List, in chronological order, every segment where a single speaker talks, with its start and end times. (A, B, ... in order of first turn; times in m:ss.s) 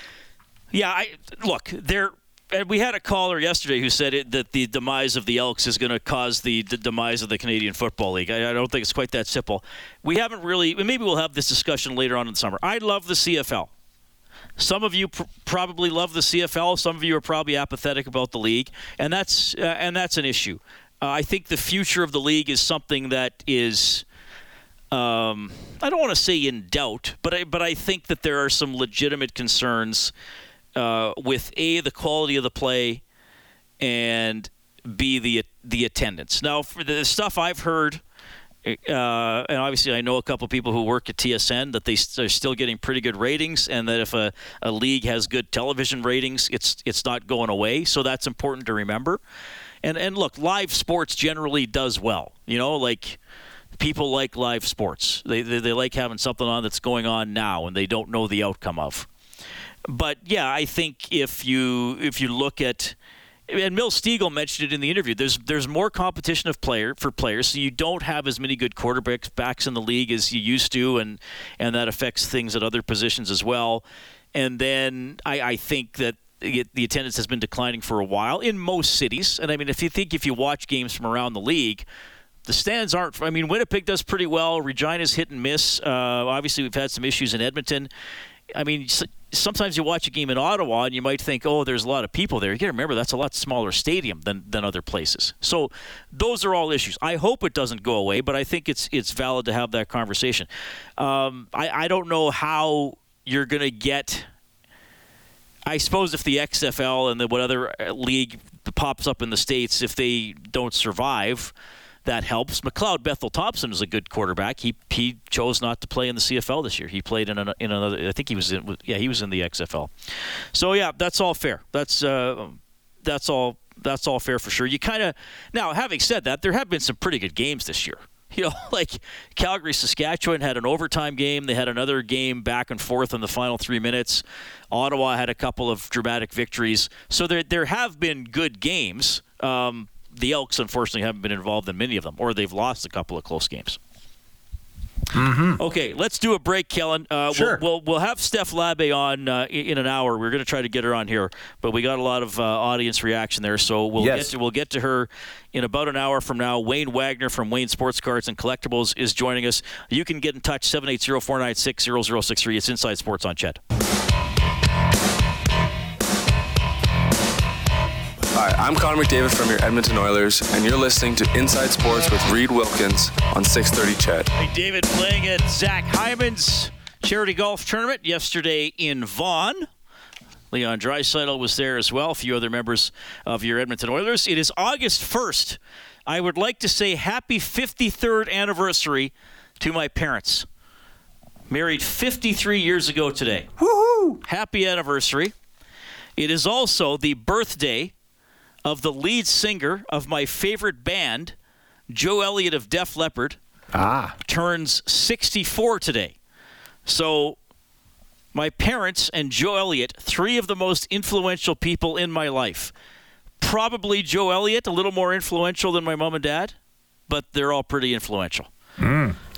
0:00.7-0:13.7 A
0:14.6-0:24.0 A
0:24.9-0:30.1 A
0:30.7-0:33.0 A
0:33.8-0:38.0 A
0:38.6-0:49.2 A
0:49.8-0:53.2 A
0:53.8-0:59.1 A
0:59.9-1:03.0 A
1:03.5-1:21.8 A
1:22.4-1:27.9 A
1:28.5-1:44.3 A
1:45.7-1:51.5 A
1:52.0-1:59.9 A
2:00.5-2:23.8 A
2:25.1-2:25.6 B
2:25.6-2:43.6 A
2:27.3-2:27.6 B
2:34.0-2:34.3 B
2:48.3-2:54.3 C
2:54.3-2:59.6 A
3:00.5-3:10.4 A
3:11.5-3:13.5 A
3:13.6-3:14.2 B
3:14.2-3:15.3 A
3:16.2-3:17.9 A
3:18.6-3:21.4 A
3:21.9-3:23.4 A
3:23.7-3:24.1 B
3:24.2-3:26.2 A
3:26.8-3:27.4 A
3:28.3-3:32.7 A
3:33.4-3:36.5 A
3:37.1-3:38.5 A
3:38.8-3:39.2 B